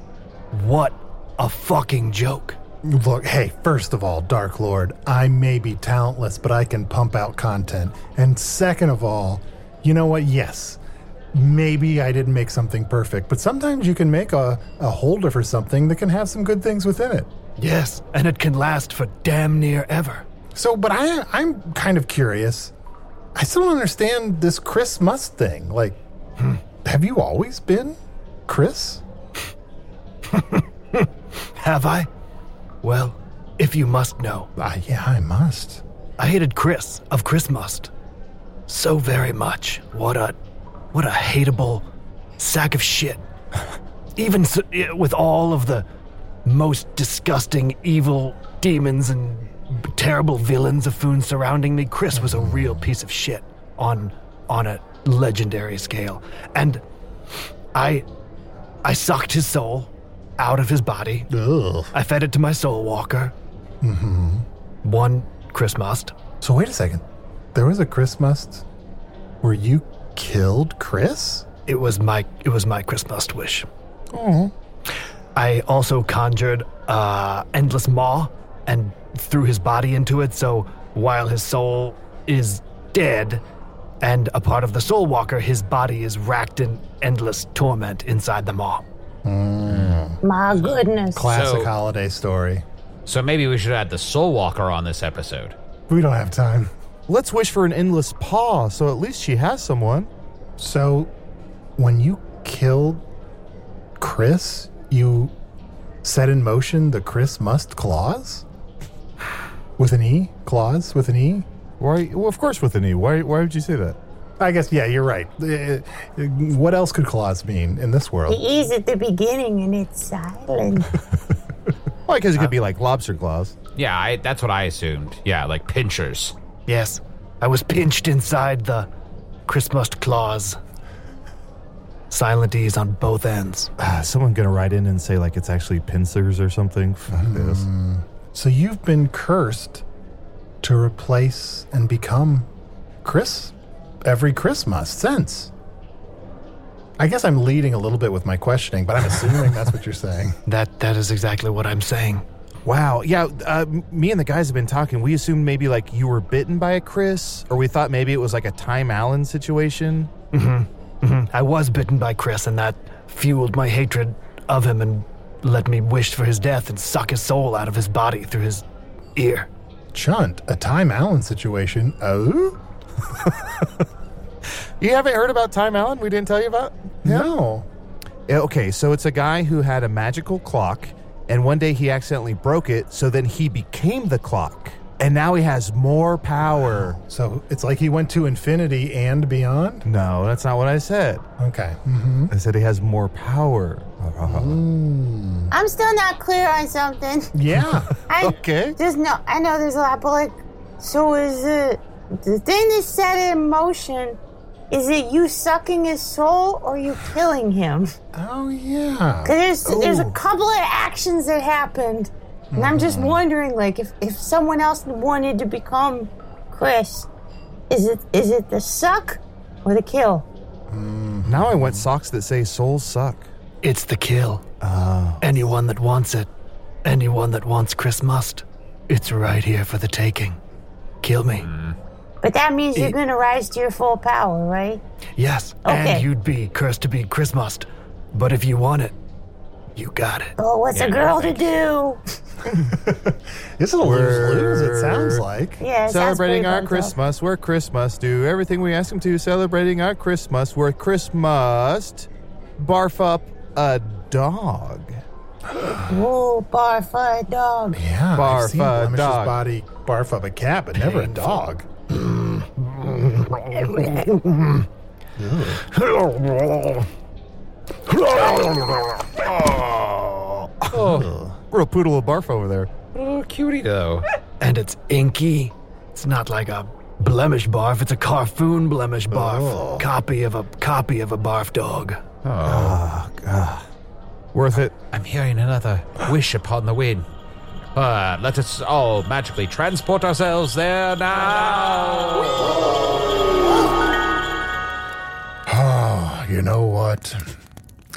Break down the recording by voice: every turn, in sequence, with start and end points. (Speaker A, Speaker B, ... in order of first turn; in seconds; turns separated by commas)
Speaker A: 0.5-2.6, Speaker B: 2.9-10.8, Speaker B: 11.3-17.3, Speaker A: 17.6-20.2, Speaker B: 20.6-22.7, Speaker B: 23.4-26.0, Speaker B: 26.8-29.0, Speaker A: 30.3-32.1, Speaker A: 32.8-34.5, Speaker B: 34.6-35.8, Speaker A: 36.2-37.9, Speaker A: 38.7-40.4, Speaker A: 40.9-41.9, Speaker A: 42.4-43.2, Speaker A: 44.2-45.9, Speaker A: 46.5-56.8, Speaker B: 52.2-52.8, Speaker A: 57.7-58.0, Speaker A: 58.8-61.3, Speaker B: 61.3-61.9, Speaker A: 61.9-63.3, Speaker B: 63.8-64.5, Speaker A: 64.8-66.2, Speaker B: 66.4-67.0, Speaker B: 67.5-68.7, Speaker B: 69.4-71.5, Speaker A: 71.7-73.7, Speaker C: 74.1-74.5, Speaker A: 75.4-83.4, Speaker A: 84.0-88.8, Speaker B: 89.2-90.2, Speaker D: 89.7-90.0, Speaker E: 90.2-91.3, Speaker D: 90.5-91.7, Speaker B: 91.2-92.6, Speaker D: 93.1-95.5, Speaker B: 95.9-96.7, Speaker C: 97.1-100.1, Speaker B: 100.6-101.1, Speaker B: 101.8-103.0, Speaker B: 104.0-105.3, Speaker B: 106.0-108.5, Speaker B: 109.8-111.5, Speaker C: 111.8-114.0, Speaker B: 114.4-118.4, Speaker E: 118.3-120.9, Speaker C: 122.1-123.5, Speaker D: 123.8-126.3, Speaker A: 126.7-128.9, Speaker A: 129.5-130.6, Speaker A: 132.1-133.7, Speaker C: 133.8-137.7, Speaker B: 137.1-139.8, Speaker B: 140.6-142.5, Speaker B: 143.0-145.5, Speaker B: 147.0-150.4, Speaker A: 150.5-152.2, Speaker C: 152.7-160.1, Speaker A: 160.3-168.6, Speaker A: 169.2-169.5, Speaker B: 169.9-172.6, Speaker C: 174.8-177.3, Speaker B: 177.1-177.7, Speaker C: 178.3-187.0, Speaker B: 186.5-189.9, Speaker C: 189.8-191.2, Speaker B: 191.4-192.3, Speaker C: 192.3-194.6, Speaker B: 194.2-195.5, Speaker E: 195.5-197.3, Speaker B: 197.3-197.9, Speaker C: 197.6-198.8, Speaker E: 198.1-204.2, Speaker E: 204.7-207.9, Speaker B: 208.1-209.9, Speaker E: 209.2-217.1, Speaker B: 212.5-213.2, Speaker E: 217.7-220.3, Speaker B: 220.7-221.9, Speaker C: 221.2-223.3, Speaker A: 223.6-224.4, Speaker C: 224.6-225.4, Speaker A: 225.2-226.3, Speaker A: 226.8-230.4, Speaker A: 231.0-231.5, Speaker D: 231.4-231.8, Speaker E: 232.2-234.8, Speaker A: 235.2-238.9, Speaker E: 235.6-236.1, Speaker A: 239.8-240.3, Speaker E: 240.4-242.0, Speaker D: 240.7-241.5, Speaker B: 242.7-245.6, Speaker C: 243.8-245.2, Speaker E: 245.6-246.9, Speaker C: 245.8-255.0, Speaker E: 255.7-257.8, Speaker B: 257.8-261.7, Speaker C: 258.1-259.4, Speaker A: 260.8-264.5, Speaker B: 265.2-265.6, Speaker A: 265.9-266.7, Speaker A: 268.1-268.6, Speaker D: 270.7-271.1, Speaker B: 270.7-271.4, Speaker C: 271.5-272.7, Speaker D: 272.9-274.1, Speaker A: 274.4-282.0, Speaker B: 279.1-279.9, Speaker D: 282.2-282.8, Speaker C: 282.4-283.7, Speaker C: 284.3-284.7, Speaker D: 284.9-287.1, Speaker D: 287.8-292.5, Speaker B: 295.5-297.2